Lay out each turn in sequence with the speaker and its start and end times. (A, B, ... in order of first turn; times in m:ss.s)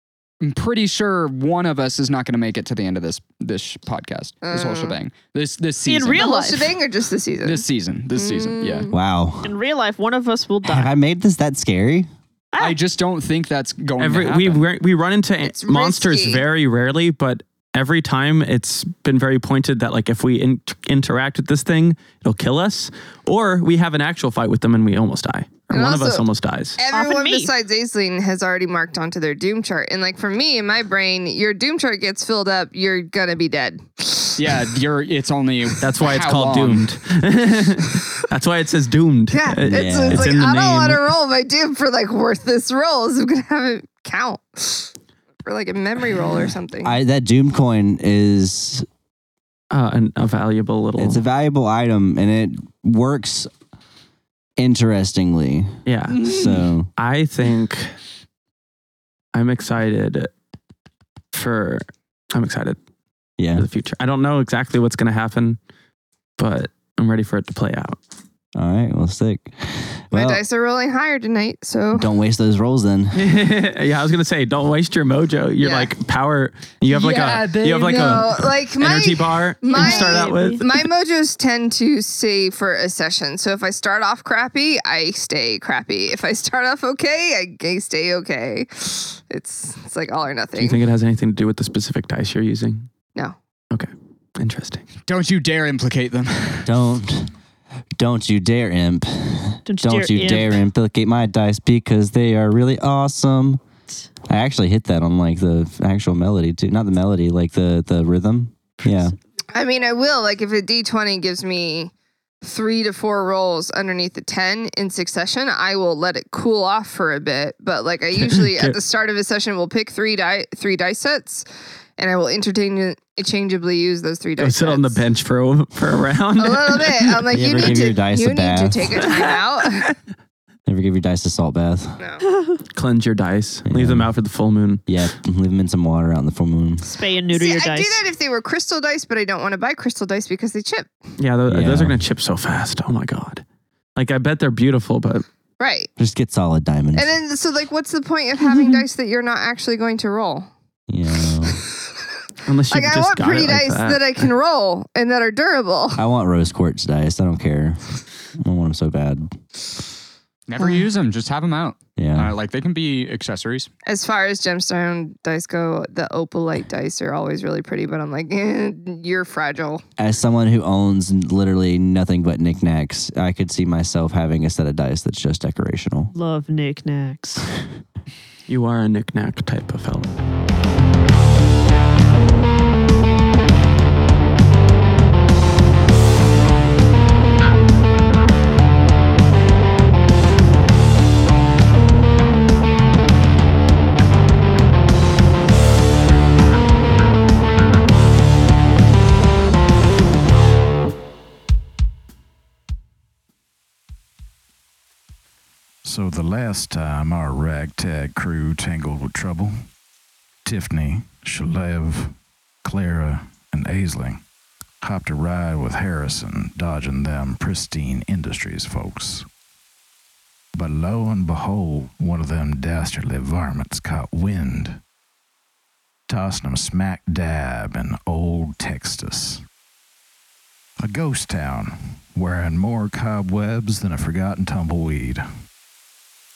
0:00.4-0:06.3 A
0:04.4-0:05.0 B
0:05.9-0:06.7 C
0:06.2-0:07.6 B
0:07.4-0:08.9 A
0:08.2-0:08.9 B
0:08.9-0:09.5 D
0:09.4-0:10.9 C
0:10.6-0:12.1 D
0:12.6-0:14.6 A
0:14.0-0:26.8 E
0:15.4-0:16.4 B
0:25.7-0:26.2 B
0:26.8-0:34.6 B
0:26.9-0:27.5 C
0:34.4-0:36.9 A
0:35.8-0:41.1 E
0:39.3-0:44.9 B
0:39.7-0:40.2 D
0:45.4-0:47.0 B
0:46.8-0:48.9 D
0:49.7-0:51.2 E
0:51.0-0:53.5 D
0:54.6-0:56.9 D
0:55.9-0:56.4 E
0:57.0-0:57.9 E
0:59.3-1:00.3 E
1:01.3-1:02.8 E
1:03.4-1:03.6 D
1:03.6-1:05.6 E
1:06.4-1:08.0 E
1:08.6-1:10.4 D
1:10.1-1:12.1 B
1:12.0-1:13.2 D
1:13.2-1:20.8 E
1:15.6-1:15.9 B
1:16.9-1:18.2 A
1:17.8-1:30.8 B
1:19.7-1:20.6 C
1:30.6-1:32.9 E
1:33.7-1:34.9 E
1:35.1-1:36.7 A
1:36.6-1:37.3 D
1:38.0-1:43.6 D
1:39.7-1:40.6 C
1:44.3-1:49.2 D
1:49.5-1:51.9 B
1:52.4-2:01.4 B
1:58.2-1:58.8 E
2:02.0-2:05.0 B
2:04.4-2:07.2 E
2:06.4-2:09.9 B
2:07.3-2:09.0 D
2:10.7-2:12.0 D
2:12.0-2:12.2 B
2:12.8-2:14.8 E
2:13.7-2:14.1 D
2:14.9-2:16.8 D
2:16.9-2:18.0 C
2:17.3-2:20.9 B
2:21.2-2:23.4 E
2:21.5-2:22.0 D
2:24.0-2:25.2 E
2:25.6-2:25.9 B
2:26.0-2:27.1 D
2:27.0-2:30.5 B
2:30.9-2:31.6 D
2:32.5-2:34.3 E
2:32.7-2:36.0 B
2:36.0-2:39.3 D
2:40.5-2:43.7 A
2:42.0-2:42.3 D
2:43.9-2:49.8 B
2:50.0-2:56.1 D
2:56.1-2:57.4 C
2:58.5-3:00.1 E
3:25.8-3:29.5 F
3:30.4-3:34.2 F
3:34.8-3:39.2 F
3:40.6-3:44.8 F
3:46.1-3:49.4 F
3:50.8-3:55.2 F